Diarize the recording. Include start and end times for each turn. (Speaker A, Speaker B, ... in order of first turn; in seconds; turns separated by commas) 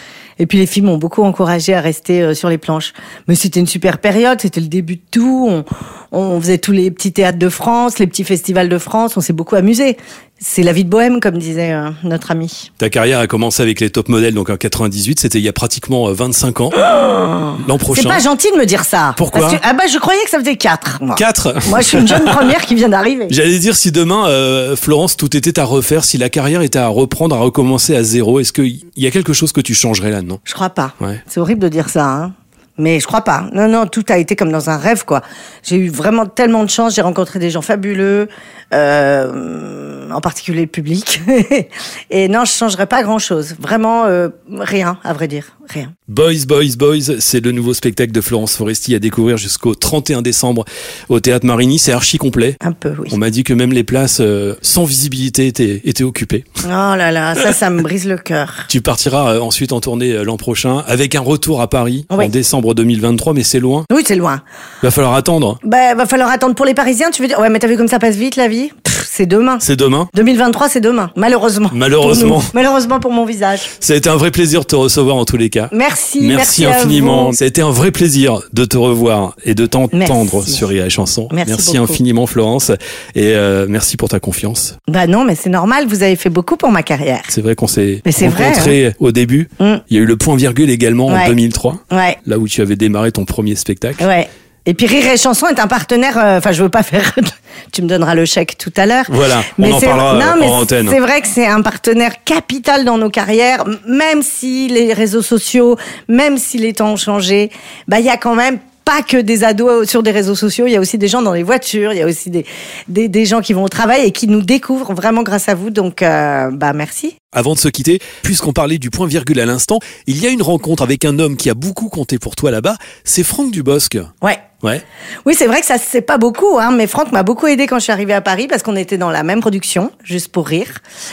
Speaker A: 0.4-12.7, Speaker B: 12.8-16.9, Speaker A: 16.8-23.4, Speaker B: 17.6-18.2, Speaker B: 19.2-19.6, Speaker B: 21.1-22.5, Speaker B: 23.3-30.4, Speaker A: 30.4-45.9, Speaker B: 46.1-52.6, Speaker A: 52.6-53.2, Speaker B: 53.1-56.5, Speaker A: 56.6-58.7, Speaker B: 58.7-63.9, Speaker A: 63.9-64.4, Speaker B: 64.8-65.6, Speaker A: 65.6-73.7, Speaker B: 69.6-70.1, Speaker B: 71.7-72.5, Speaker B: 73.7-84.8, Speaker A: 75.7-77.4, Speaker A: 79.9-80.6, Speaker A: 81.3-82.0, Speaker A: 84.9-87.3, Speaker B: 87.3-94.1, Speaker A: 88.0-88.8, Speaker A: 91.1-91.4, Speaker A: 91.9-92.2, Speaker A: 94.0-117.2, Speaker B: 99.1-101.0, Speaker B: 117.3-124.1, Speaker A: 125.2-130.8